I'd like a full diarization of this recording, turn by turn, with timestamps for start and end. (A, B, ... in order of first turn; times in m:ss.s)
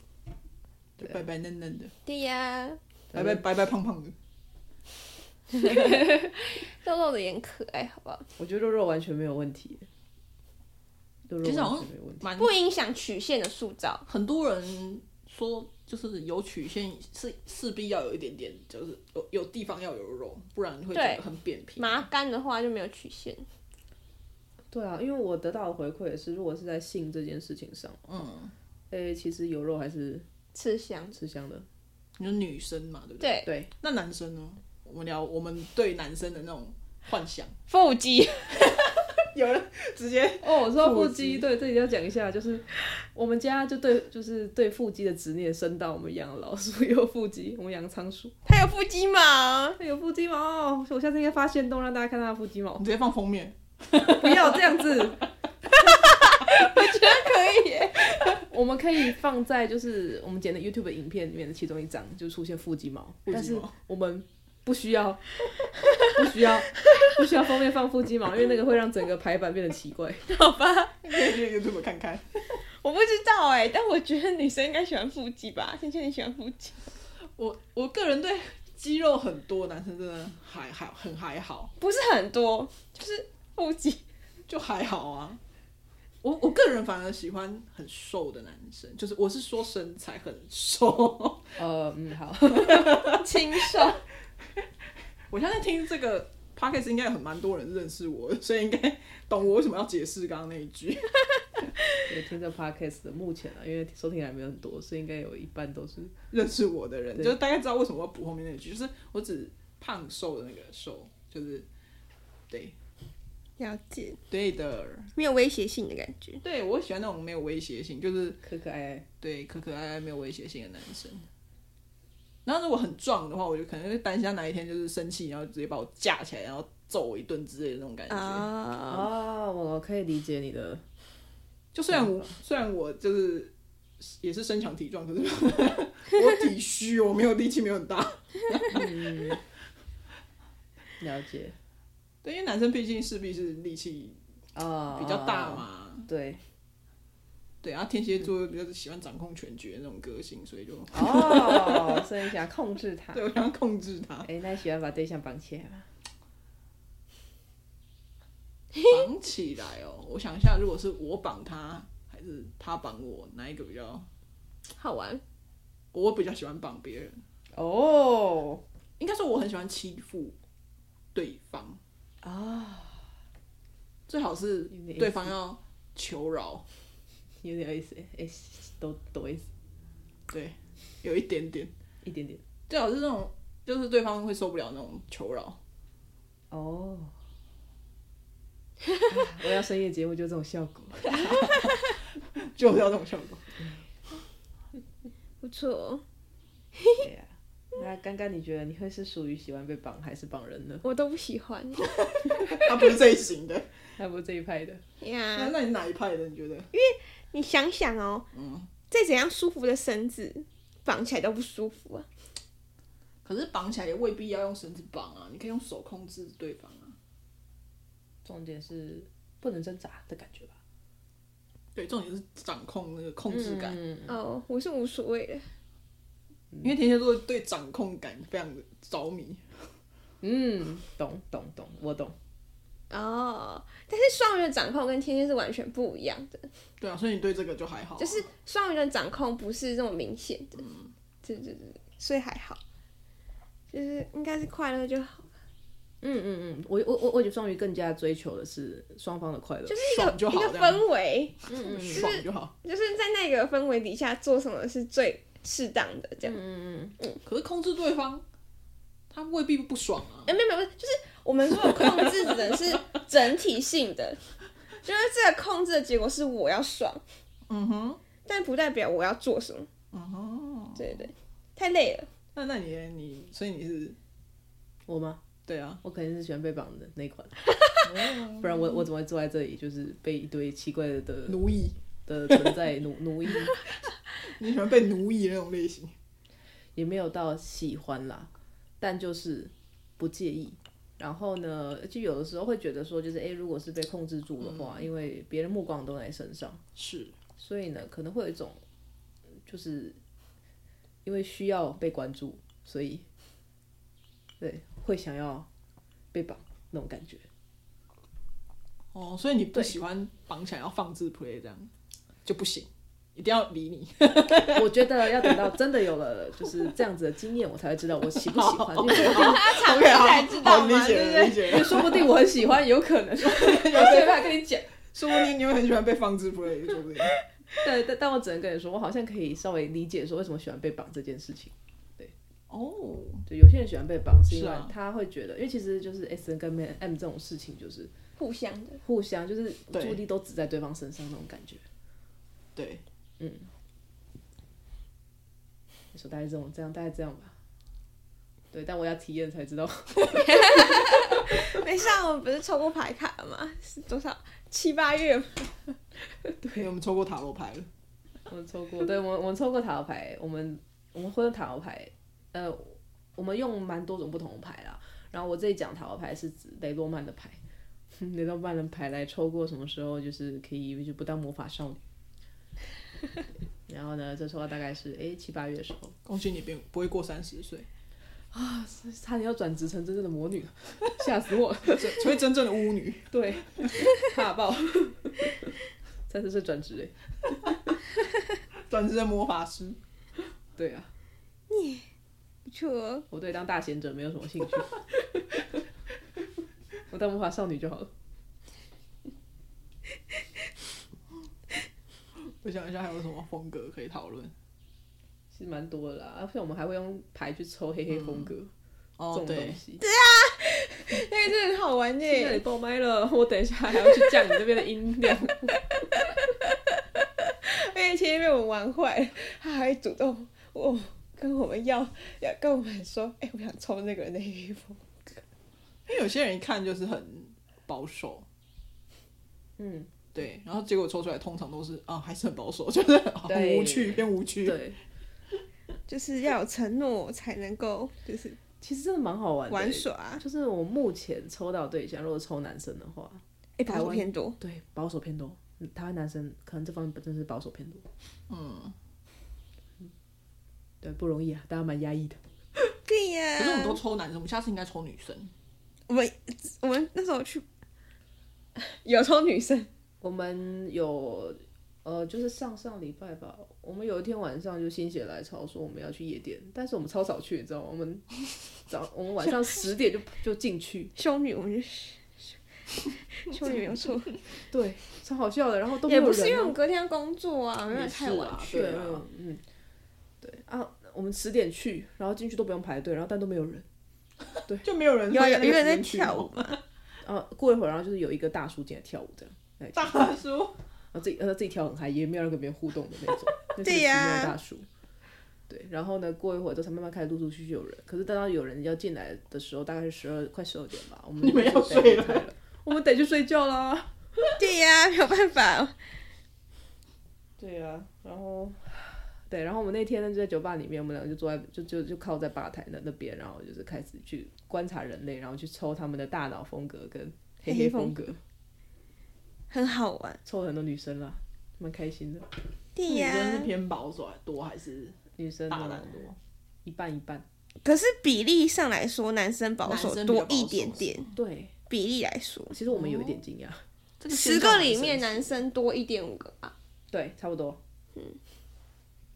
0:01.0-0:01.9 A
0:02.1-0:02.8 B
0:03.1-0:03.4 C
0:03.1-0:04.2 A
0:05.5-0:08.3 B
0:08.4-0:09.9 C
0:11.3-0:12.3 C
0:11.4-0:12.5 A
0:12.4-0:14.0 B
0:14.1-0:22.1 A
0:20.9-0:21.2 B
0:21.8-0:23.5 B
0:24.7-0:28.2 C
0:28.1-0:28.5 A
0:28.9-0:30.3 C
0:30.5-0:31.2 B
0:31.1-0:31.7 C
0:32.2-0:37.6 A
0:33.2-0:33.5 B
0:33.4-0:33.7 C
0:37.7-0:38.8 B
0:39.2-0:41.5 A
0:40.4-0:48.4 C
0:48.4-0:49.8 B
0:49.8-0:52.8 C
0:52.8-0:55.0 A
0:54.0-0:55.3 C
0:55.9-0:58.4 B
0:58.5-1:05.3 C
1:03.3-1:03.8 A
1:06.0-1:10.3 C
1:10.3-1:11.4 B
1:11.0-1:12.6 A
1:12.7-1:16.8 B
1:17.4-1:21.7 A
1:21.8-1:24.0 B
1:24.5-1:25.4 A
1:26.2-1:31.6 A
1:31.6-1:33.2 C
1:32.6-1:33.2 A
1:33.0-1:34.0 B
1:35.3-1:41.3 A
1:42.0-1:46.1 C
1:46.3-1:51.7 A
1:52.5-1:52.8 A
1:53.6-1:54.2 B
1:54.3-1:55.1 A
1:55.2-1:56.4 B
1:56.4-1:58.4 A
1:58.4-1:59.1 C
1:59.2-2:01.3 A
2:02.4-2:08.5 A
2:08.1-2:09.1 B
2:08.9-2:10.8 C
2:11.7-2:19.4 A
2:11.9-2:12.3 C
2:18.7-2:19.4 C
2:21.0-2:21.6 C
2:22.2-2:24.2 A
2:24.6-2:26.4 C
2:24.9-2:26.1 A
2:27.6-2:32.0 A
2:30.9-2:33.2 C
2:33.1-2:34.3 A
2:34.2-2:35.9 C
2:38.8-2:44.1 A
2:44.7-2:45.2 B
2:45.9-2:47.2 A
2:47.6-2:48.6 C
2:49.0-2:50.4 A
2:51.2-2:51.8 A
2:52.2-2:53.1 C
2:54.1-2:56.7 A
2:54.7-2:55.3 C
2:57.4-2:59.5 C
3:00.3-3:01.7 A
3:02.0-3:02.4 C
3:02.7-3:05.6 A
3:06.5-3:07.2 C
3:09.1-3:11.5 C
3:11.4-3:11.7 A
3:12.4-3:13.5 A
3:15.4-3:16.0 B
3:16.8-3:17.0 B
3:17.0-3:20.9 C
3:20.8-3:21.9 B
3:22.0-3:23.7 A
3:24.0-3:24.8 C
3:25.0-3:25.5 B
3:25.3-3:26.7 A
3:26.7-3:28.3 B
3:28.3-3:28.7 A
3:28.9-3:32.1 B
3:33.2-3:37.0 A
3:38.2-3:40.6 C
3:41.8-3:43.8 A
3:43.3-3:44.1 C
3:44.1-3:45.5 B
3:46.6-3:49.7 A
3:50.2-3:52.2 C
3:52.9-3:56.5 B
3:56.8-3:58.3 A
3:58.0-4:00.6 B
4:00.6-4:00.9 A
4:01.2-4:02.6 B
4:03.7-4:05.3 B
4:06.0-4:09.8 C
4:09.7-4:16.4 B
4:09.8-4:10.8 A
4:11.5-4:12.1 C
4:11.5-4:12.5 A
4:16.2-4:17.0 C
4:17.2-4:18.2 A
4:19.1-4:20.3 A
4:20.3-4:24.2 B
4:21.6-4:23.0 A
4:24.8-4:27.0 B
4:27.5-4:28.0 A
4:28.2-4:29.7 B
4:29.9-4:31.0 A
4:30.8-4:32.1 B
4:32.4-4:34.0 A
4:34.9-4:35.2 C
4:35.5-4:35.8 A
4:35.8-4:37.4 C
4:37.8-4:38.9 A
4:38.4-4:41.5 C
4:41.3-4:41.8 A
4:42.1-4:43.6 C
4:42.3-4:42.5 A
4:44.2-4:45.9 A
4:46.8-4:56.6 C
4:54.4-4:54.9 A
4:56.8-4:57.2 A
4:57.4-4:58.6 C
4:59.5-5:00.0 C
5:01.0-5:03.1 C
5:04.4-5:05.5 C
5:06.1-5:07.3 C
5:08.9-5:11.7 A
5:12.2-5:15.6 A
5:14.5-5:19.4 C
5:18.2-5:22.1 A
5:18.9-5:21.5 B
5:21.4-5:24.7 C
5:23.2-5:27.2 A
5:27.6-5:32.1 C
5:32.5-5:33.3 A
5:33.3-5:37.9 C
5:34.3-5:34.7 A
5:38.2-5:38.8 B
5:38.8-5:41.6 C
5:39.7-5:40.0 A
5:42.6-5:42.8 A
5:43.2-5:43.5 C
5:45.9-5:47.4 C
5:48.5-5:51.6 C
5:50.1-5:55.6 B
5:56.3-5:56.6 C
5:56.5-5:57.7 A
5:58.3-6:07.4 C
6:07.9-6:11.8 C
6:13.7-6:16.0 C
6:16.0-6:17.7 A
6:18.3-6:22.0 C
6:21.7-6:23.7 A
6:23.1-6:25.6 C
6:26.1-6:27.6 C
6:28.7-6:29.8 A
6:30.6-6:30.9 C
6:31.5-6:31.9 B
6:32.4-6:33.1 B
6:33.1-6:35.4 C
6:36.9-6:37.9 C
6:42.3-6:44.3 A
6:45.3-6:48.5 C
6:47.9-6:48.3 A
6:49.0-6:49.6 A
6:49.1-6:49.8 C
6:49.8-6:52.4 B
6:52.0-6:56.0 C
6:53.7-6:54.4 B
6:56.0-7:05.2 B
7:05.9-7:08.3 A
7:09.6-7:09.9 C
7:10.1-7:14.6 A
7:13.3-7:14.8 C
7:15.9-7:18.4 B
7:18.6-7:27.9 C
7:19.5-7:20.2 B
7:23.6-7:24.4 B
7:28.3-7:28.8 A
7:30.8-7:32.2 C
7:32.9-7:33.8 B
7:33.4-7:35.3 A
7:35.9-7:37.4 B
7:38.6-7:39.7 B
7:40.0-7:48.1 C
7:48.6-7:50.9 C
7:51.0-7:54.2 B
7:54.5-7:56.6 C
7:55.8-7:58.7 B
7:57.7-7:59.0 A
7:58.5-7:59.4 C
8:00.2-8:03.7 C
8:04.6-8:06.6 A
8:05.1-8:06.6 B
8:07.0-8:10.1 C
8:09.7-8:10.6 A
8:10.9-8:14.7 C
8:13.6-8:14.4 B
8:15.5-8:24.3 C
8:21.2-8:22.3 A
8:24.4-8:25.8 B
8:27.4-8:38.2 C
8:37.4-8:38.0 B
8:39.5-8:40.2 B
8:40.2-8:42.3 C
8:42.8-8:43.5 B
8:42.9-8:45.0 A
8:45.2-8:47.2 C
8:45.5-8:46.1 A
8:47.6-8:51.1 B
8:49.6-8:51.1 A
8:51.2-8:51.5 C
8:51.7-8:52.6 B
8:52.5-8:53.6 C
8:52.7-8:53.2 A
8:54.0-8:55.4 A
8:54.1-8:56.5 B
8:56.9-8:57.6 C
8:58.0-8:58.2 B